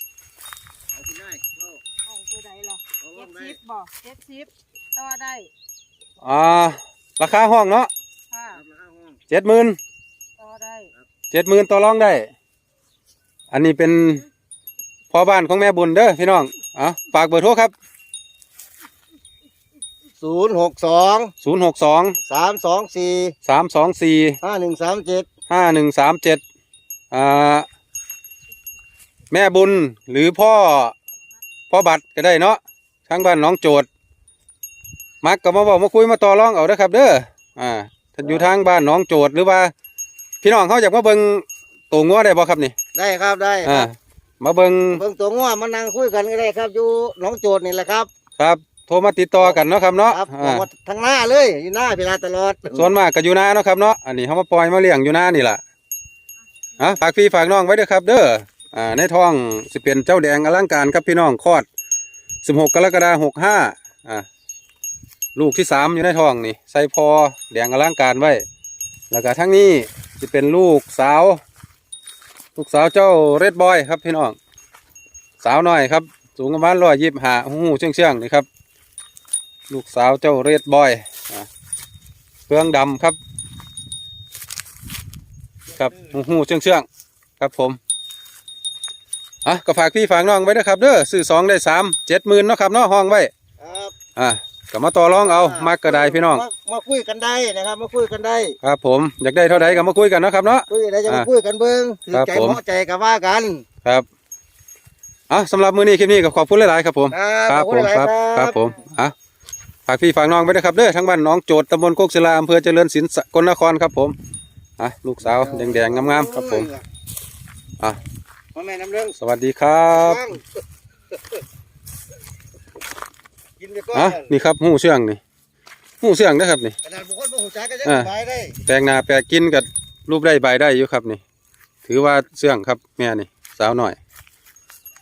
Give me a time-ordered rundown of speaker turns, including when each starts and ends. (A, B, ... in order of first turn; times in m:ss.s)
0:00.9-0:01.8 A
0:02.1-0:05.5 B
0:03.0-0:03.6 A
0:06.2-0:07.9 C
0:08.3-0:08.6 B
0:08.6-0:09.2 A
0:09.3-0:09.8 C
0:10.4-0:10.9 B
0:11.3-0:12.3 C
0:13.5-0:14.2 C
0:15.1-0:17.7 C
0:20.2-0:21.3 A
0:21.4-0:22.2 C
0:22.3-0:23.4 A
0:23.4-0:24.4 C
0:24.4-0:25.3 A
0:25.5-0:26.4 C
0:27.1-0:27.7 C
0:29.3-0:31.0 C
0:31.7-0:33.9 C
0:35.2-0:39.7 C
0:40.4-0:42.8 C
0:42.9-0:43.9 A
0:43.6-0:45.0 C
0:44.9-0:48.1 A
0:48.4-0:50.7 C
0:49.4-0:52.9 A
0:52.7-0:55.6 C
0:56.8-1:01.7 C
1:02.4-1:04.3 C
1:05.4-1:08.4 C
1:09.1-1:11.4 C
1:12.6-1:14.4 C
1:15.4-1:18.5 C
1:19.7-1:21.5 C
1:22.5-1:23.2 C
1:25.8-1:26.9 C
1:27.4-1:27.8 C
1:29.4-1:33.3 C
1:33.6-1:34.0 A
1:34.2-1:36.4 C
1:35.2-1:38.6 A
1:38.6-1:41.3 C
1:39.5-1:39.8 A
1:40.7-1:43.6 A
1:42.1-1:42.6 C
1:45.3-1:49.2 C
1:47.1-1:48.6 A
1:49.9-1:54.2 C
1:54.8-1:56.7 C
1:55.3-1:56.8 A
1:58.5-1:59.2 A
1:59.2-2:00.3 C
1:59.9-2:00.5 A
2:03.6-2:04.3 A
2:03.9-2:05.2 C
2:06.0-2:06.8 C
2:06.8-2:08.6 A
2:07.8-2:08.1 C
2:08.6-2:11.2 C
2:11.8-2:14.0 C